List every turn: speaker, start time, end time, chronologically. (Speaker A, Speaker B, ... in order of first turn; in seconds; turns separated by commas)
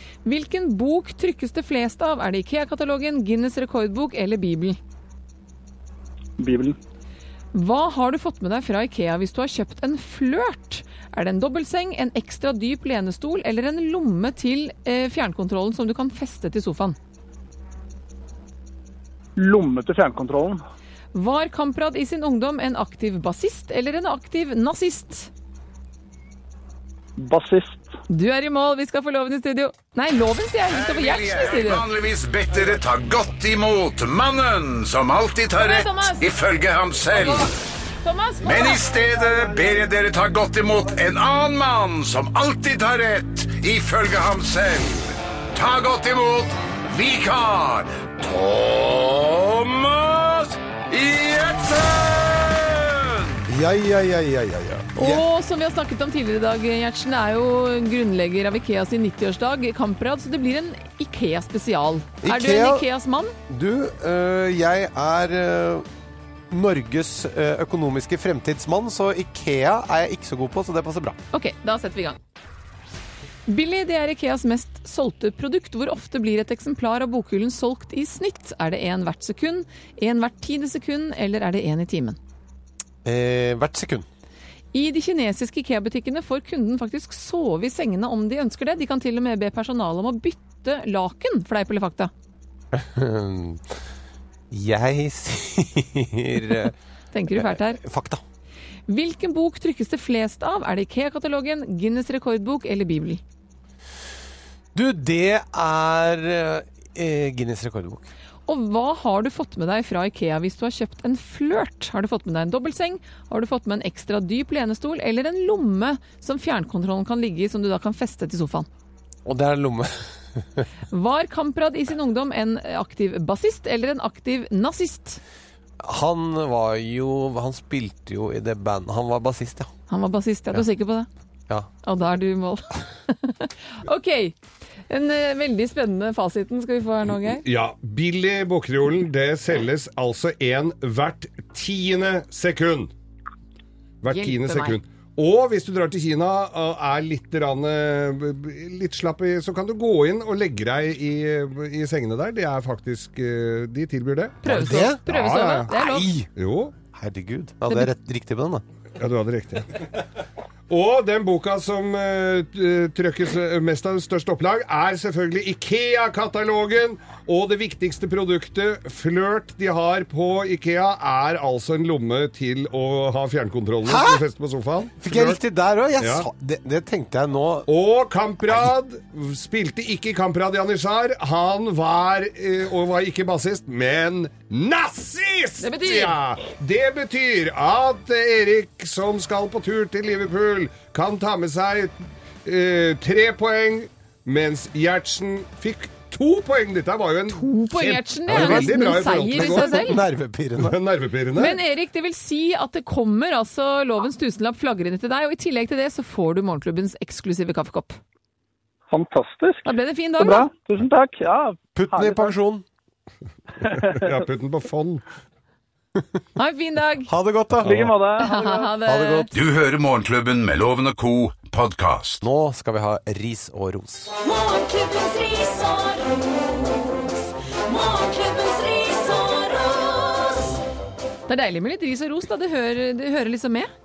Speaker A: 0.2-4.8, Speaker B: 6.4-6.8, Speaker A: 7.5-17.0, Speaker B: 19.4-20.6, Speaker A: 21.1-25.3, Speaker B: 27.2-27.9, Speaker A: 28.1-31.8, Speaker C: 30.7-37.5, Speaker A: 35.5-36.2, Speaker A: 37.1-38.8, Speaker C: 38.4-53.4, Speaker D: 53.5-55.2, Speaker A: 55.0-63.3, Speaker D: 62.2-62.9, Speaker D: 63.5-65.8, Speaker D: 66.5-71.2, Speaker A: 71.3-72.2, Speaker A: 73.5-82.2, Speaker D: 83.0-84.0, Speaker A: 84.7-92.1, Speaker D: 92.7-93.6, Speaker D: 94.5-96.7, Speaker A: 97.1-97.8, Speaker D: 97.3-98.2, Speaker A: 98.9-103.2, Speaker D: 104.7-108.1, Speaker A: 108.5-118.7, Speaker D: 119.2-120.7, Speaker A: 120.9-125.2, Speaker D: 125.8-129.7, Speaker A: 129.9-131.1, Speaker A: 131.8-134.3, Speaker A: 134.9-137.4, Speaker E: 137.4-142.9, Speaker E: 144.0-155.7, Speaker A: 144.1-144.8, Speaker A: 154.4-156.1, Speaker D: 154.4-155.0, Speaker D: 155.7-156.3, Speaker E: 156.3-156.7, Speaker D: 156.9-158.6, Speaker E: 159.0-160.0, Speaker E: 160.7-175.4, Speaker D: 173.8-174.2, Speaker D: 175.0-177.7, Speaker E: 176.0-176.3, Speaker E: 177.7-199.9, Speaker A: 185.6-186.2, Speaker A: 197.3-200.0, Speaker D: 198.3-200.8, Speaker E: 200.6-201.6, Speaker A: 201.3-208.0, Speaker B: 208.9-212.3, Speaker A: 209.6-210.5, Speaker D: 211.7-212.7, Speaker B: 213.6-214.1, Speaker E: 213.8-215.0, Speaker A: 216.3-217.1, Speaker D: 217.1-217.9, Speaker B: 217.6-218.7, Speaker E: 217.6-217.9, Speaker A: 218.2-219.3, Speaker D: 218.8-219.3, Speaker C: 219.3-222.2, Speaker D: 222.2-224.1, Speaker F: 224.2-230.6, Speaker A: 231.3-233.7